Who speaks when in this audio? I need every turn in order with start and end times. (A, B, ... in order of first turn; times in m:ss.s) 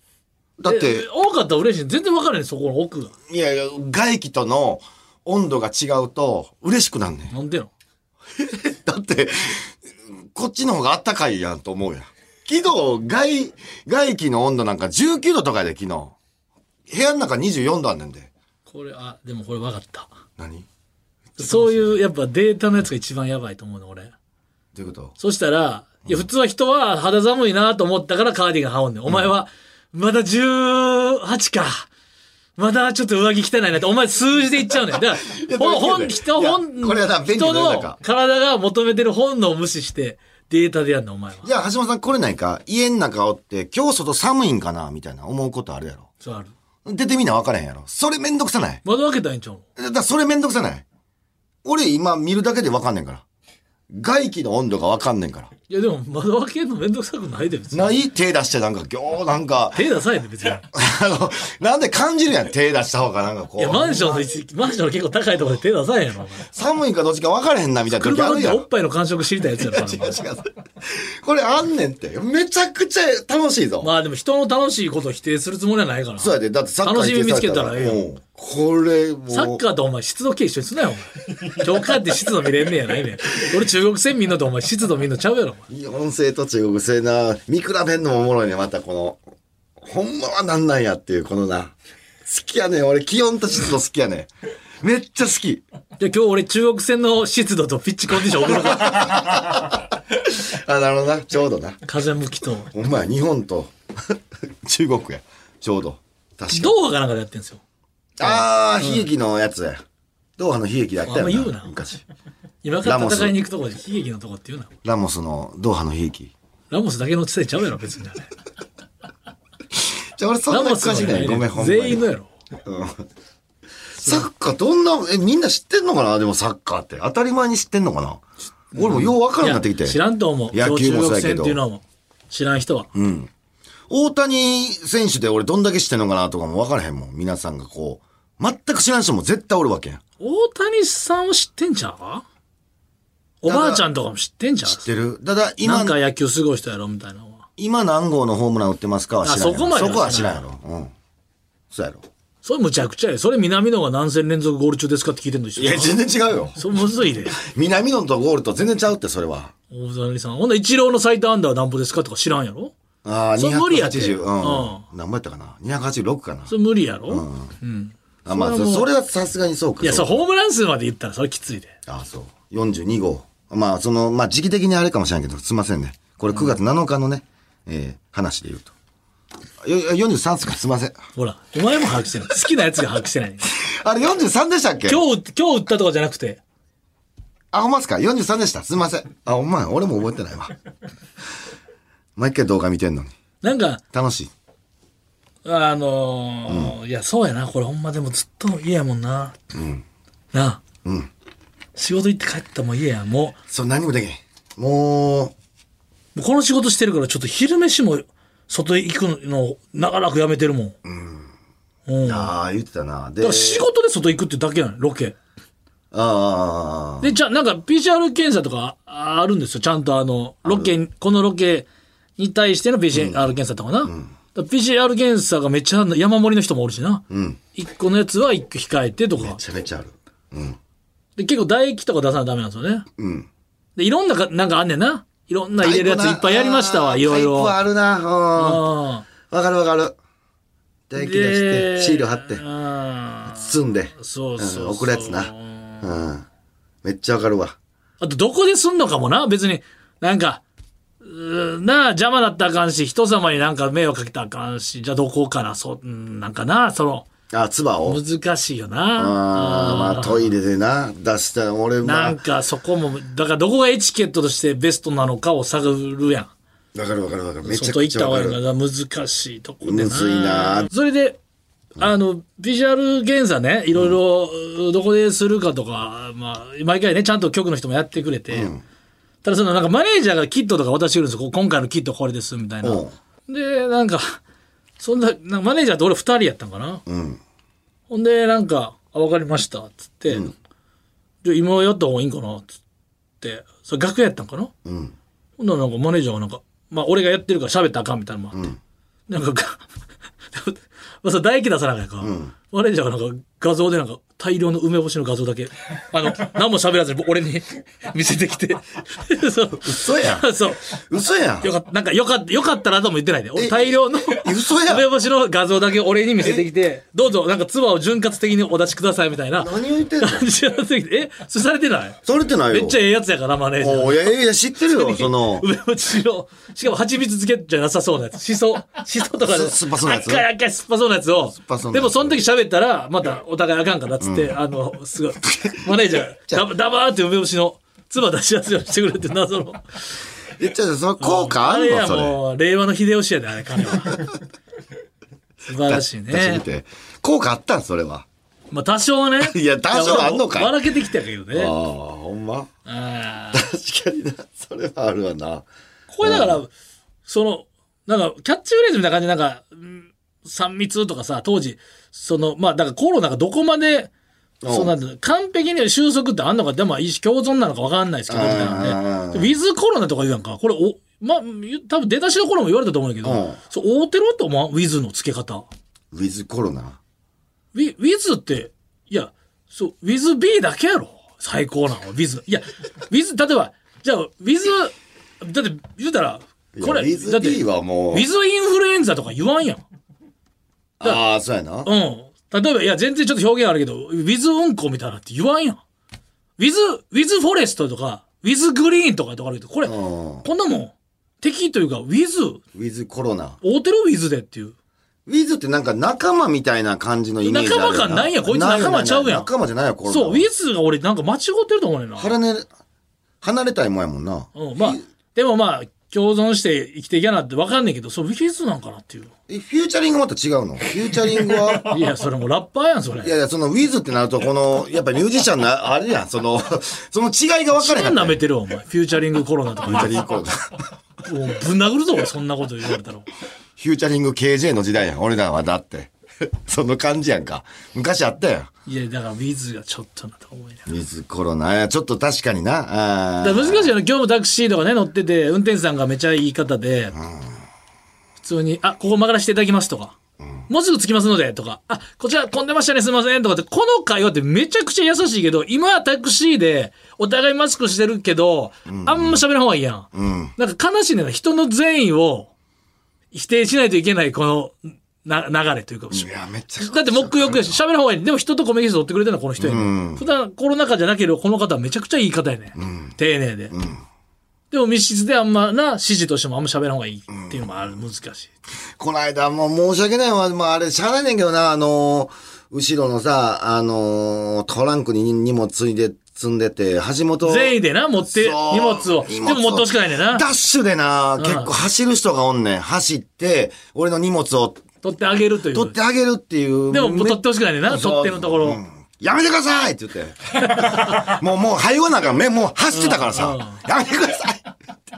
0:00.6-0:01.1 A
0:00.6-0:03.1 B
0:03.3-0:07.3 A
0:07.3-0:07.7 B
0:08.4-0:09.7 A
0:10.3-0:16.1 A
0:16.9-0:18.3 A
0:18.7-0:20.1 B
0:20.4-0:20.6 A
0:21.4-0:21.9 A
0:21.4-0:24.1 B
0:24.7-0:25.1 A
0:25.2-0:31.9 B
0:32.6-0:41.5 B
0:35.3-0:38.0 A
0:41.4-0:46.1 A
0:46.2-0:46.5 B
0:46.8-0:48.8 A
0:48.8-0:49.6 B
0:49.8-0:50.8 A
0:51.6-0:53.2 A
0:53.9-0:55.5 A
0:55.7-0:57.9 B
0:57.7-0:59.8 A
0:59.7-1:00.6 B
1:00.7-1:04.2 A
1:03.6-1:06.5 B
1:06.5-1:08.6 A
1:07.9-1:10.2 B
1:09.6-1:13.9 A
1:13.8-1:18.0 B
1:16.2-1:19.6 A
1:19.3-1:25.6 B
1:25.7-1:29.2 A
1:29.8-1:31.7 A
1:32.2-1:34.3 A
1:34.8-1:35.6 A
1:36.0-1:39.3 B
1:38.4-1:41.8 A
1:41.8-1:42.7 B
1:42.7-1:46.8 A
1:46.5-1:47.6 B
1:48.2-1:49.8 A
1:48.2-1:49.0 B
1:50.4-1:52.0 A
1:51.0-1:51.7 B
1:52.6-1:54.7 B
1:52.8-1:53.4 A
1:54.8-1:56.3 A
1:56.7-1:58.3 B
1:59.8-2:02.0 A
2:00.5-2:02.3 B
2:02.6-2:03.0 A
2:04.0-2:08.2 A
2:08.7-2:10.0 A
2:08.7-2:12.9 B
2:10.5-2:11.6 A
2:12.9-2:13.3 A
2:13.9-2:20.0 A
2:20.2-2:22.2 B
2:23.4-2:24.8 B
2:23.4-2:23.8 A
2:24.7-2:26.0 A
2:25.6-2:27.4 B
2:27.6-2:30.9 A
2:29.2-2:30.4 B
2:31.7-2:32.0 A
2:32.4-2:36.0 B
2:35.6-2:36.6 A
2:36.6-2:37.4 B
2:37.3-2:39.5 A
2:39.7-2:42.7 B
2:43.0-2:46.5 A
2:43.4-2:44.8 B
2:46.5-2:48.9 B
2:47.1-2:47.5 A
2:48.2-2:50.2 A
2:49.8-2:51.7 B
2:51.9-2:58.7 A
2:59.6-3:01.0 A
3:01.2-3:03.4 B
3:03.5-3:05.0 A
3:04.9-3:06.4 B
3:07.5-3:10.5 A
3:12.2-3:13.1 A
3:13.4-3:13.8 B
3:13.9-3:14.3 A
3:15.4-3:19.4 B
3:16.5-3:16.7 A
3:19.5-3:19.8 A
3:20.3-3:20.6 B
3:20.8-3:21.1 A
3:21.7-3:23.4 B
3:23.5-3:25.3 A
3:26.1-3:30.8 B
3:30.8-3:31.3 A
3:31.9-3:32.3 B
3:32.0-3:33.6 A
3:33.2-3:35.1 B
3:35.9-3:37.1 A
3:37.0-3:49.4 B
3:40.4-3:40.7 A
3:42.9-3:43.3 A
3:43.8-3:44.1 A
3:47.1-3:47.4 A
3:49.2-3:50.6 A
3:51.2-3:52.8 B
3:53.0-3:53.3 A
3:53.8-3:57.5 B
3:55.6-3:58.7 A
3:58.4-3:59.0 B
3:59.3-4:00.0 A
4:00.9-4:02.4 A
4:01.0-4:05.8 B
4:03.3-4:06.3 A
4:06.8-4:07.6 A
4:08.0-4:10.4 B
4:11.0-4:17.1 B
4:17.3-4:18.0 A
4:17.8-4:20.3 B
4:19.0-4:22.2 A
4:21.8-4:26.3 B
4:26.7-4:28.4 A
4:27.4-4:31.2 B
4:29.6-4:30.7 A
4:31.8-4:38.5 B
4:38.3-4:38.6 A
4:39.2-4:44.2 B
4:42.6-4:42.9 A
4:44.8-4:46.8 B
4:46.9-4:47.2 A
4:47.9-4:50.3 B
4:51.2-4:52.6 B
4:53.2-4:54.5 B
4:54.6-4:54.9 A
4:55.4-4:58.5 B
4:59.1-4:59.6 B
5:00.3-5:10.6 B
5:02.0-5:02.3 A
5:09.6-5:11.5 A
5:11.4-5:22.0 B
5:13.3-5:14.8 A
5:19.4-5:20.3 A
5:22.0-5:22.8 A
5:22.5-5:24.1 B
5:23.6-5:25.4 A
5:24.6-5:39.8 B
5:29.2-5:30.2 A
5:31.3-5:32.2 A
5:34.0-5:34.3 A
5:35.2-5:35.6 A
5:40.4-5:42.2 A
5:41.0-5:44.0 B
5:45.4-5:46.4 B
5:45.5-5:48.0 A
5:48.5-5:51.5 B
5:49.2-5:50.6 A
5:51.3-5:52.5 A
5:52.6-5:53.4 B
5:53.3-5:55.4 A
5:55.9-5:56.5 B
5:56.0-5:56.4 A
5:57.0-6:03.9 B
6:04.4-6:04.7 A
6:04.5-6:15.4 B
6:08.1-6:09.3 A
6:13.0-6:13.4 A
6:15.9-6:16.8 A
6:17.5-6:29.6 B
6:26.5-6:28.1 A
6:30.8-6:31.7 A
6:31.6-6:35.6 B
6:36.4-6:42.4 B
6:39.6-6:40.2 A
6:42.5-6:43.4 A
6:43.4-6:44.5 B
6:45.1-6:50.2 A
6:47.2-6:49.3 B
6:49.9-6:52.1 B
6:52.0-6:52.5 A
6:53.2-6:54.8 A
6:54.3-6:59.1 B
6:59.3-7:01.8 A
7:01.6-7:03.1 B
7:03.0-7:08.2 A
7:07.6-7:10.0 B
7:09.6-7:10.4 A
7:11.0-7:13.1 B
7:13.6-7:18.5 A
7:18.6-7:20.7 B
7:20.7-7:23.7 A
7:23.2-7:27.0 B
7:27.0-7:27.3 A
7:28.2-7:29.9 B
7:30.5-7:42.3 B
7:38.7-7:39.2 A
7:39.9-7:40.3 A
7:43.1-7:53.5 B
7:45.9-7:47.6 A
7:49.4-7:50.0 A
7:52.6-7:53.0 A
7:53.5-7:53.8 A
7:54.5-7:58.3 B
7:57.1-7:57.6 A
7:58.8-8:14.6 A
8:07.2-8:10.2 B
8:11.2-8:11.5 B
8:14.8-8:15.8 B
8:15.5-8:24.5 A
8:16.7-8:18.6 B
8:20.5-8:21.1 B
8:22.7-8:23.6 B